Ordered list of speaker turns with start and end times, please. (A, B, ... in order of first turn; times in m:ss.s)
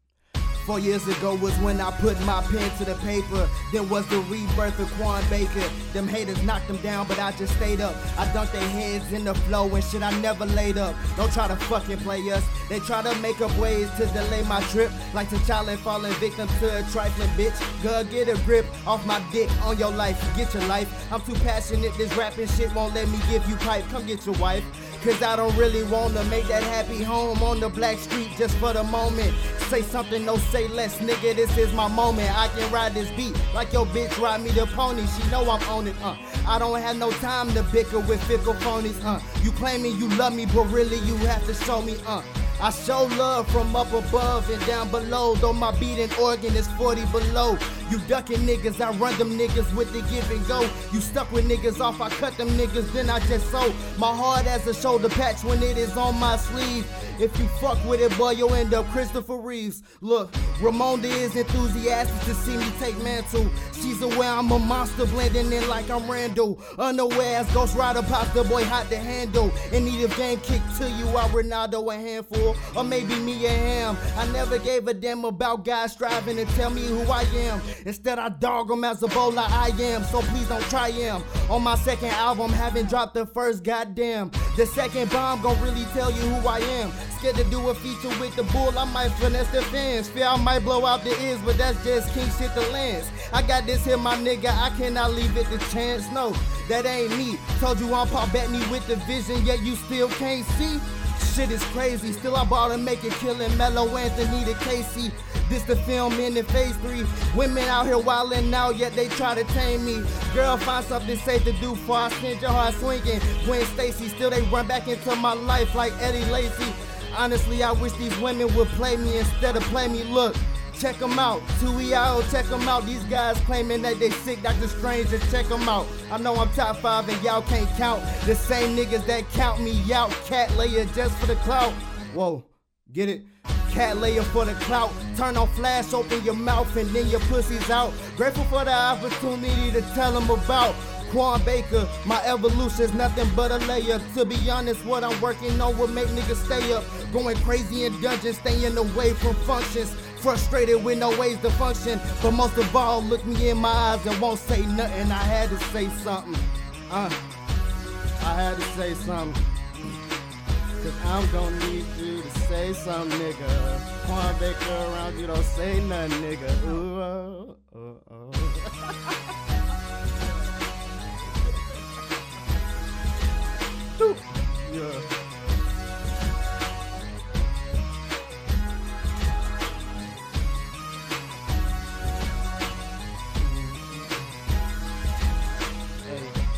0:00.6-2:37.2 A
2:38.2-2:39.4 A
2:40.8-2:48.9 A
2:54.0-2:55.0 A
3:03.4-3:04.2 A
3:06.0-3:06.4 A